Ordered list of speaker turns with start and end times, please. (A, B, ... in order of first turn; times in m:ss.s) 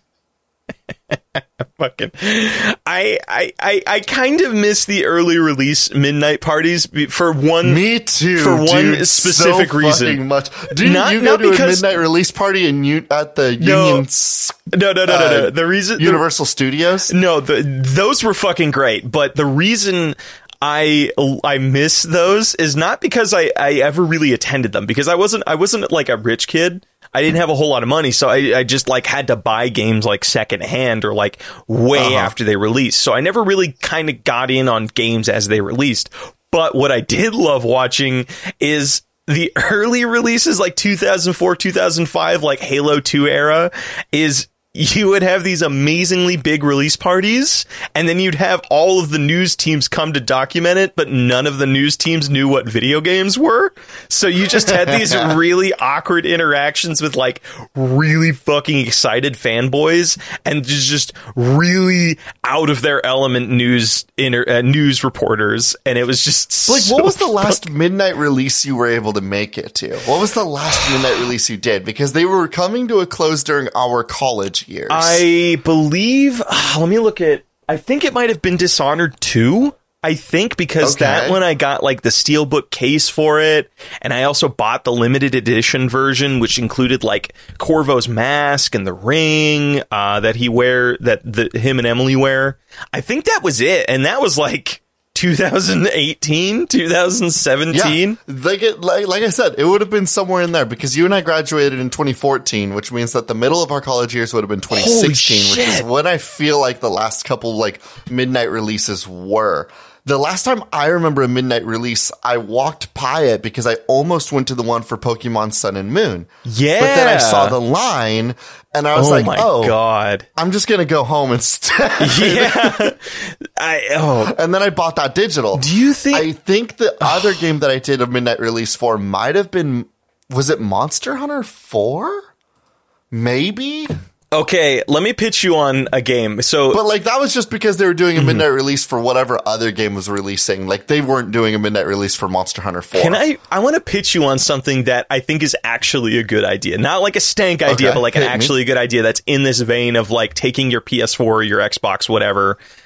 0:01.1-0:07.8 A
0:07.6-0:17.1 B
0:08.4-0:10.2 A
0:10.8-0:11.9 A
0:13.6-0:14.0 A
0:14.7-0:16.2 A
0:17.1-1:07.6 A
0:31.9-0:32.4 B
0:54.6-0:55.3 B
1:06.7-1:15.2 B
1:14.9-1:38.2 A
1:20.8-1:21.4 B
1:37.7-1:56.3 B
1:44.7-1:45.9 A
1:56.5-1:57.6 A
1:56.8-1:59.8 B
1:59.0-2:00.3 A
2:00.4-2:02.9 B
2:02.0-2:04.4 A
2:04.2-2:12.3 B
2:05.6-2:06.3 A
2:07.0-2:07.3 A
2:13.1-2:13.9 B
2:14.3-2:16.8 A
2:16.7-2:23.2 B
2:18.2-2:18.4 A
2:23.0-2:32.6 A
2:27.7-2:28.5 B